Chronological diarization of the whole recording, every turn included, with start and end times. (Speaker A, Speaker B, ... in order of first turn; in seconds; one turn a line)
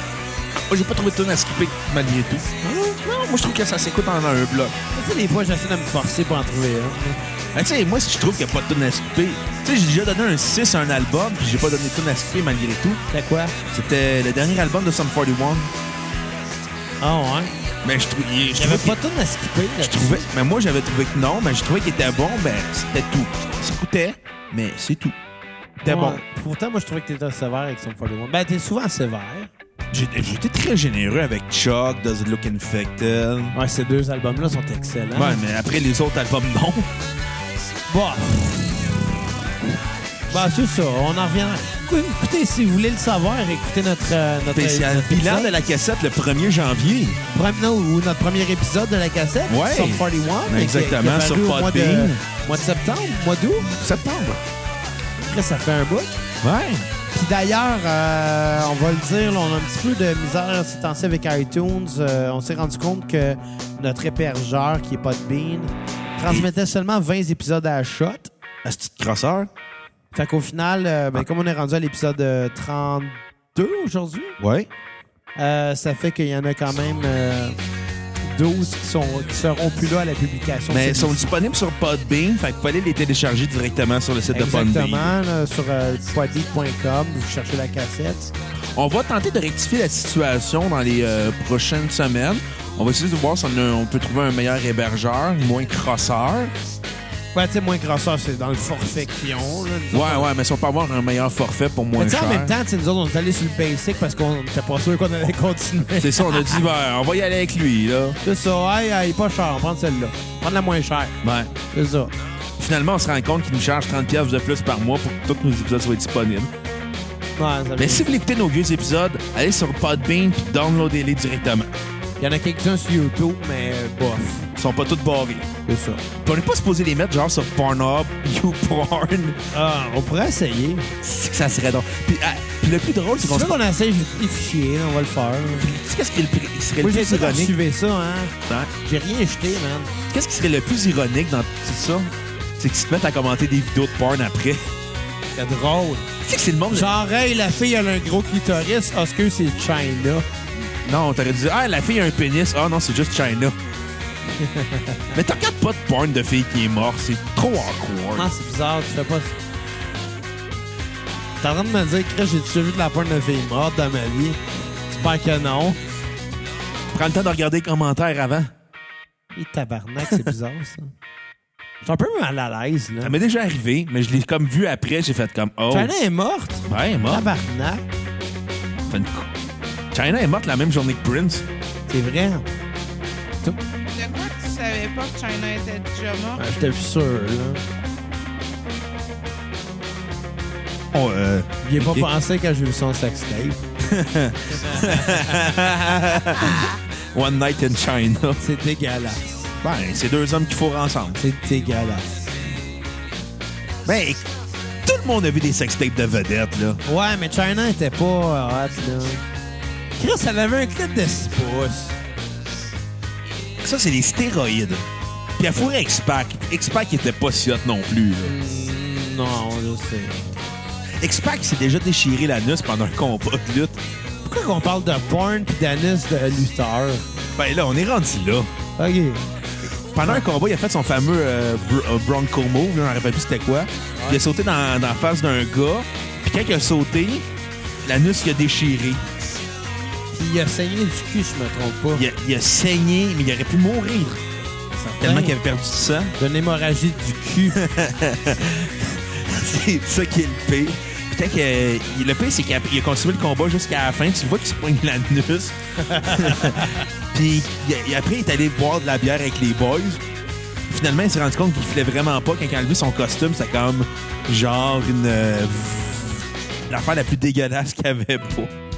Speaker A: 0.6-4.8
Speaker B: 4.9-7.2
Speaker A: 7.5-13.0
Speaker B: 13.1-13.6
Speaker A: 13.7-15.7
Speaker B: 17.0-17.5
Speaker A: 17.8-19.0
Speaker B: 18.6-20.3
Speaker A: 19.8-25.1
Speaker A: 25.8-26.2
Speaker B: 25.8-29.5
Speaker A: 29.9-33.6
Speaker B: 33.5-35.4
Speaker A: 35.1-36.9
Speaker B: 37.9-39.2
Speaker B: 40.3-45.5
Speaker A: 44.5-47.2
Speaker B: 47.3-53.7
Speaker A: 49.5-52.2
Speaker A: 53.6-54.4
Speaker B: 55.2-56.2
Speaker A: 56.4-56.9
Speaker B: 57.1-68.3
Speaker A: 68.7-69.5
Speaker B: 70.1-74.4
Speaker A: 74.4-74.7
Speaker B: 75.4-77.6
Speaker B: 78.3-81.3
Speaker A: 80.7-85.1
Speaker B: 84.3-88.3
Speaker A: 88.8-96.5
Speaker B: 97.3-100.3
Speaker A: 99.9-102.5
Speaker B: 102.0-106.6
Speaker A: 106.0-108.2
Speaker B: 108.2-111.2
Speaker A: 111.2-111.5
Speaker B: 111.7-112.1
Speaker A: 112.6-116.5
Speaker B: 117.4-118.1
Speaker A: 117.8-121.7
Speaker B: 122.2-124.5
Speaker A: 124.6-125.5
Speaker B: 125.7-126.0
Speaker A: 126.2-129.4
Speaker B: 129.5-130.9
Speaker A: 131.0-133.6
Speaker B: 133.2-135.7
Speaker A: 135.6-137.6
Speaker B: 136.8-139.9
Speaker A: 140.1-144.7
Speaker B: 145.3-146.1
Speaker A: 146.2-146.9
Speaker B: 146.7-150.3
Speaker A: 150.8-153.6
Speaker B: 154.4-155.2
Speaker A: 155.1-158.3
Speaker B: 158.2-159.4
Speaker B: 161.4-165.8
Speaker A: 166.9-168.5
Speaker B: 169.3-170.9
Speaker B: 171.8-173.2
Speaker A: 173.0-175.9
Speaker B: 175.7-177.8
Speaker A: 176.7-177.3
Speaker A: 178.9-179.3
Speaker A: 179.9-181.4
Speaker B: 181.9-182.5
Speaker C: 183.9-186.6
Speaker B: 186.4-187.6
Speaker A: 190.9-192.1
Speaker B: 191.6-193.6
Speaker A: 193.8-198.4
Speaker B: 194.6-195.7
Speaker B: 196.4-196.7
Speaker B: 198.4-199.6
Speaker A: 199.6-201.2
Speaker B: 201.2-202.3
Speaker A: 203.8-204.3
Speaker A: 204.8-206.8
Speaker B: 206.8-209.2
Speaker B: 210.0-212.0
Speaker A: 213.6-218.3
Speaker B: 218.2-220.4
Speaker A: 221.0-223.8
Speaker B: 224.2-227.1
Speaker A: 227.4-228.5
Speaker B: 228.8-229.3
Speaker A: 229.9-237.3
Speaker B: 234.0-234.2
Speaker A: 237.8-239.1
Speaker B: 240.1-242.1
Speaker A: 241.9-244.2
Speaker B: 244.7-245.4
Speaker A: 245.0-246.2
Speaker B: 246.2-247.6
Speaker A: 247.5-260.0
Speaker B: 255.8-256.8
Speaker A: 260.7-268.5